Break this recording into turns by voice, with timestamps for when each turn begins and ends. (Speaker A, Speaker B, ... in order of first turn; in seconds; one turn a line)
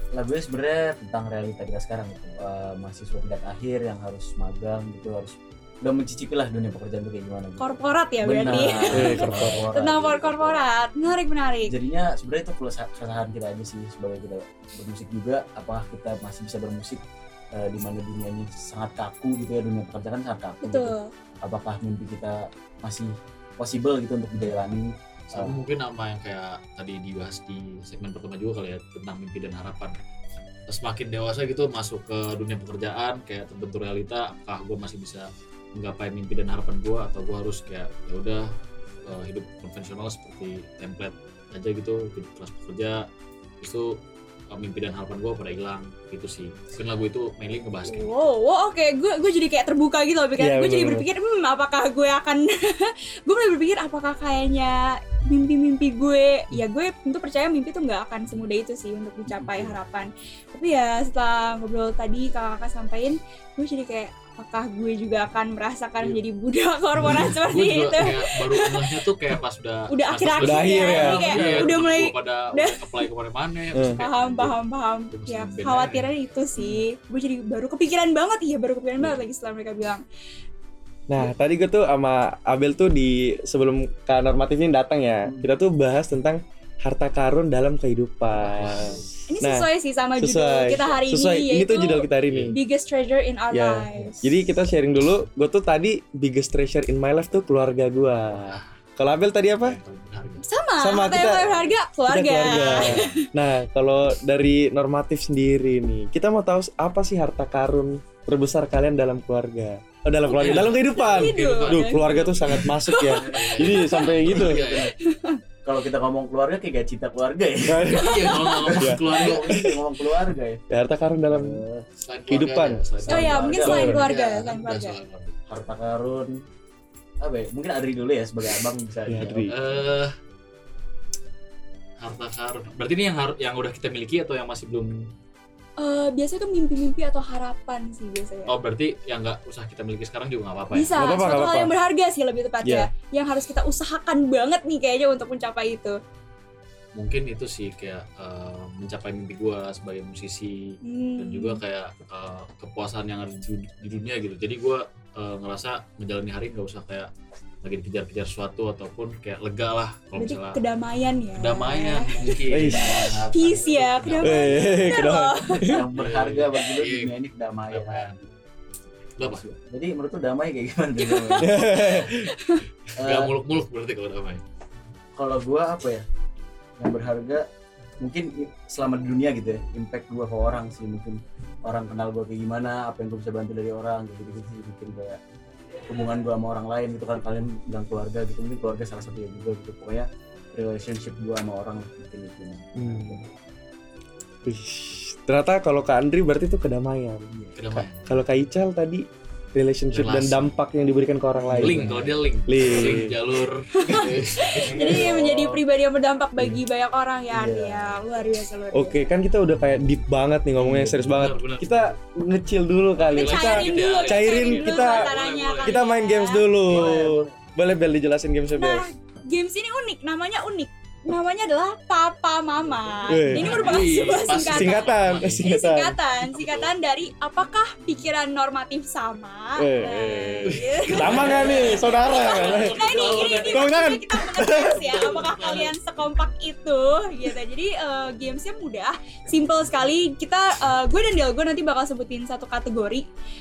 Speaker A: 0.1-7.6
Speaker B: 7.6-11.7
Speaker A: 8.2-10.7
Speaker C: 8.9-9.6
Speaker A: 11.7-25.6
Speaker B: 20.6-21.1
Speaker D: 25.3-29.9
Speaker D: 30.7-38.5
Speaker D: 39.1-43.0
Speaker D: 43.6-43.9
Speaker D: 44.5-48.3
Speaker B: 47.9-68.8
Speaker C: 50.4-51.1
Speaker D: 67.1-74.6
Speaker B: 69.9-72.9
Speaker C: 70.4-71.7
Speaker C: 73.7-74.0
Speaker B: 74.0-80.0
Speaker D: 75.1-76.1
Speaker C: 81.1-92.6
Speaker D: 88.3-89.1
Speaker B: 89.3-94.3
Speaker D: 92.2-92.6
Speaker C: 93.5-99.8
Speaker D: 98.3-98.6
Speaker D: 99.6-100.4
Speaker B: 100.4-103.2
Speaker C: 100.8-114.6
Speaker D: 110.2-112.6
Speaker B: 110.9-114.2
Speaker A: 113.1-113.7
Speaker D: 113.3-114.9
Speaker A: 114.3-114.9
Speaker B: 115.0-115.4
Speaker A: 115.7-117.9
Speaker C: 117.7-119.8
Speaker D: 117.9-119.6
Speaker B: 118.2-118.7
Speaker A: 118.7-120.6
Speaker C: 120.7-121.6
Speaker A: 121.3-121.8
Speaker D: 122.0-125.4
Speaker C: 122.3-122.9
Speaker A: 123.0-124.1
Speaker B: 123.1-125.0
Speaker C: 123.6-124.1
Speaker A: 125.5-126.4
Speaker A: 127.2-129.8
Speaker C: 129.1-129.5
Speaker D: 129.5-130.1
Speaker D: 132.0-134.9
Speaker B: 135.8-138.5
Speaker D: 138.5-140.9
Speaker B: 140.7-146.0
Speaker C: 141.0-141.8
Speaker C: 142.6-142.9
Speaker D: 146.9-150.6
Speaker B: 150.8-151.6
Speaker D: 151.2-157.1
Speaker D: 157.6-160.6
Speaker B: 160.2-162.4
Speaker D: 161.4-163.2
Speaker A: 162.2-164.9
Speaker C: 162.5-163.1
Speaker B: 163.3-165.7
Speaker C: 164.2-165.9
Speaker A: 165.6-168.3
Speaker D: 165.9-167.1
Speaker D: 167.7-168.2
Speaker D: 169.2-169.4
Speaker A: 169.2-172.0
Speaker B: 171.1-172.6
Speaker C: 171.4-172.3
Speaker A: 173.0-173.3
Speaker D: 173.0-174.4
Speaker A: 175.2-176.1
Speaker A: 176.8-177.4
Speaker A: 178.0-185.2
Speaker A: 185.9-193.3
Speaker C: 192.8-193.2
Speaker C: 194.5-197.3
Speaker A: 197.3-197.6
Speaker D: 197.6-198.3
Speaker C: 198.1-201.9
Speaker D: 199.9-200.6
Speaker A: 201.4-202.3
Speaker D: 201.6-205.1
Speaker C: 202.5-203.1
Speaker B: 203.7-209.0
Speaker A: 204.6-205.6
Speaker A: 207.3-208.3
Speaker C: 208.7-215.1
Speaker D: 210.6-211.9
Speaker D: 213.0-215.8
Speaker B: 213.1-216.5
Speaker C: 215.6-218.9
Speaker A: 216.7-217.4
Speaker B: 218.5-243.1
Speaker C: 223.1-223.8
Speaker D: 223.3-225.6
Speaker C: 224.4-226.0
Speaker D: 226.2-226.7
Speaker C: 229.6-235.2
Speaker D: 230.5-233.8
Speaker D: 234.6-235.7